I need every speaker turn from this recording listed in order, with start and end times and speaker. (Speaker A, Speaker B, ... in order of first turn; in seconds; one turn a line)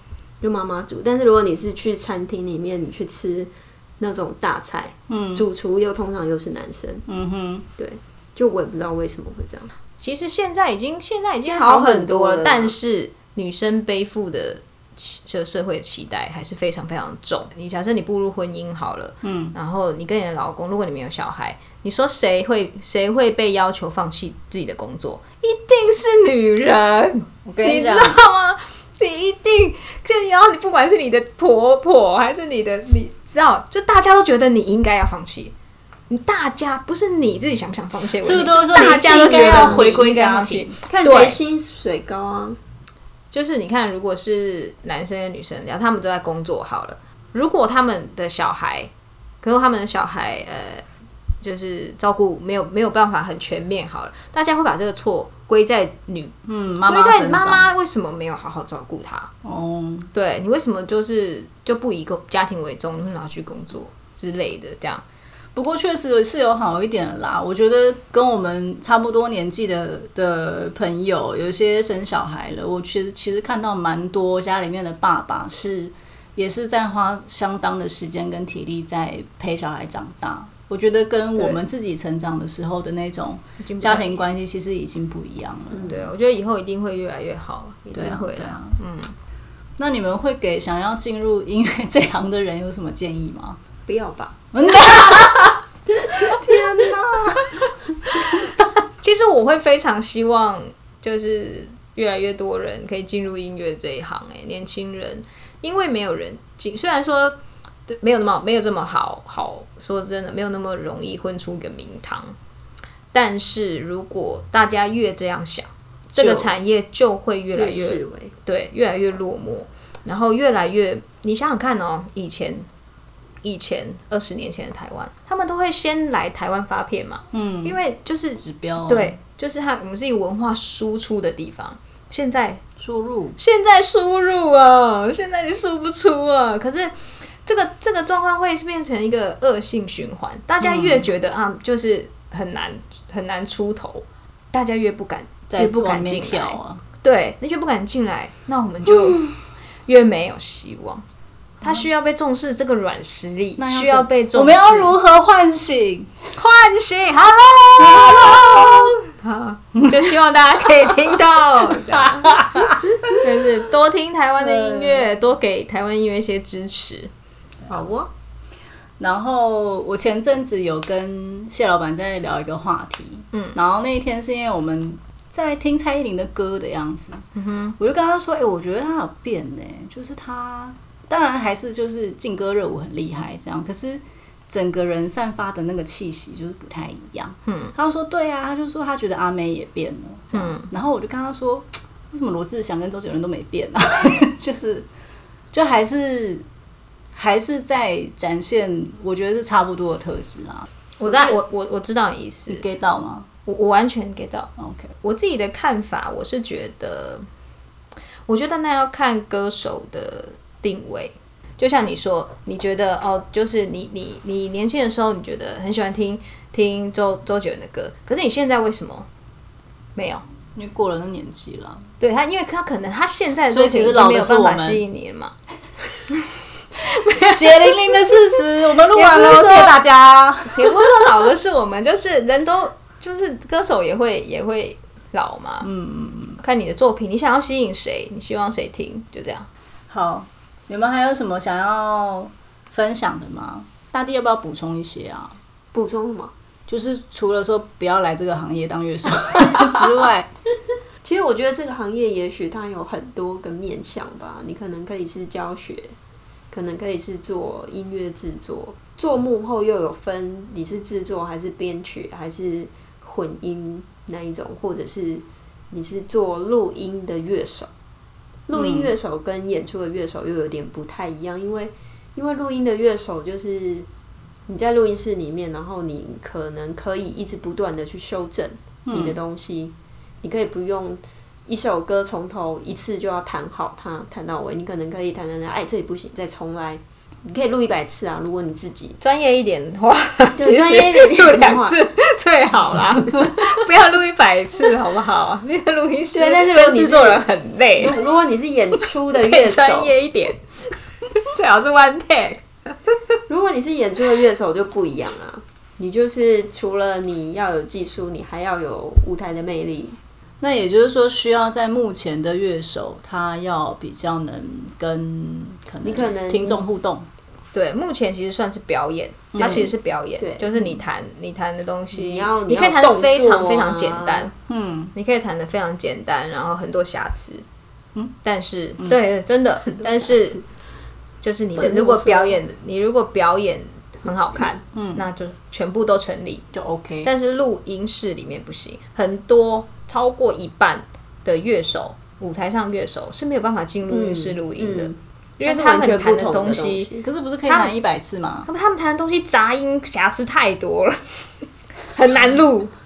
Speaker A: 0.4-7.0
Speaker B: 5.1-5.4
Speaker B: 7.1-7.6
Speaker A: 7.8-9.7
Speaker C: 10.0-35.5
Speaker A: 11.4-12.7
Speaker B: 19.2-19.5
Speaker B: 27.4-28.2
Speaker C: 36.1-41.4
Speaker B: 38.2-40.8
Speaker A: 38.8-39.9
Speaker A: 40.9-42.6
Speaker C: 43.3-48.9
Speaker C: 49.4-50.8
Speaker C: 51.4-59.3
Speaker B: 56.5-57.7
Speaker B: 59.4-60.1
Speaker C: 60.1-65.0
Speaker B: 65.5-86.0
Speaker C: 83.6-84.2
Speaker C: 85.7-89.1
Speaker B: 87.9-88.8
Speaker B: 89.8-93.6
Speaker A: 93.8-94.4
Speaker B: 94.5-97.7
Speaker C: 99.0-112.3
Speaker C: 113.1-122.7
Speaker A: 116.1-116.5
Speaker A: 117.5-118.3
Speaker C: 123.4-132.6
Speaker B: 127.3-127.8
Speaker B: 128.4-129.1
Speaker B: 132.8-133.4
Speaker C: 133.4-149.3
Speaker B: 140.6-141.1
Speaker B: 145.5-146.8
Speaker B: 149.0-149.3
Speaker C: 149.9-151.0
Speaker C: 151.6-154.9
Speaker B: 153.6-156.1
Speaker C: 156.3-167.1
Speaker B: 157.8-158.9
Speaker B: 161.8-163.1
Speaker B: 164.4-165.1
Speaker C: 167.7-168.1
Speaker B: 169.0-177.2
Speaker C: 177.3-177.8
Speaker B: 177.8-194.9
Speaker C: 187.5-187.7
Speaker C: 190.3-190.7
Speaker B: 195.5-196.4
Speaker B: 197.1-201.4
Speaker C: 201.0-202.6
Speaker B: 202.5-203.3
Speaker C: 203.4-204.5
Speaker B: 204.6-204.9
Speaker C: 205.0-207.2
Speaker C: 208.3-219.1
Speaker C: 219.9-220.2
Speaker B: 220.5-221.8
Speaker C: 222.0-225.3
Speaker B: 223.5-224.8
Speaker C: 226.8-228.4
Speaker B: 227.1-230.9
Speaker C: 228.9-229.8
Speaker C: 230.5-235.7
Speaker B: 235.6-236.4
Speaker C: 236.4-239.5
Speaker B: 239.9-245.3
Speaker A: 245.7-246.3
Speaker B: 246.7-250.3
Speaker A: 249.6-249.9
Speaker A: 251.0-255.9
Speaker A: 256.5-267.7
Speaker A: 268.5-273.9
Speaker B: 268.5-268.9
Speaker A: 274.5-289.0
Speaker B: 278.9-279.2
Speaker C: 289.0-298.0
Speaker A: 290.4-291.8
Speaker A: 296.1-297.2
Speaker A: 297.8-299.9
Speaker C: 299.1-300.4
Speaker C: 301.2-302.4
Speaker A: 303.3-310.0
Speaker B: 310.4-317.1
Speaker A: 315.8-316.6
Speaker C: 317.5-324.3
Speaker B: 319.3-319.7
Speaker A: 320.2-320.5
Speaker A: 321.9-324.3
Speaker B: 324.5-324.9
Speaker C: 324.9-327.4
Speaker C: 328.2-330.4
Speaker A: 329.6-330.4
Speaker C: 331.2-336.5
Speaker A: 331.6-332.4
Speaker B: 334.7-335.0
Speaker B: 336.5-337.1
Speaker C: 337.0-346.9
Speaker A: 343.9-347.1
Speaker B: 347.0-348.5
Speaker C: 347.4-347.8
Speaker C: 348.4-352.7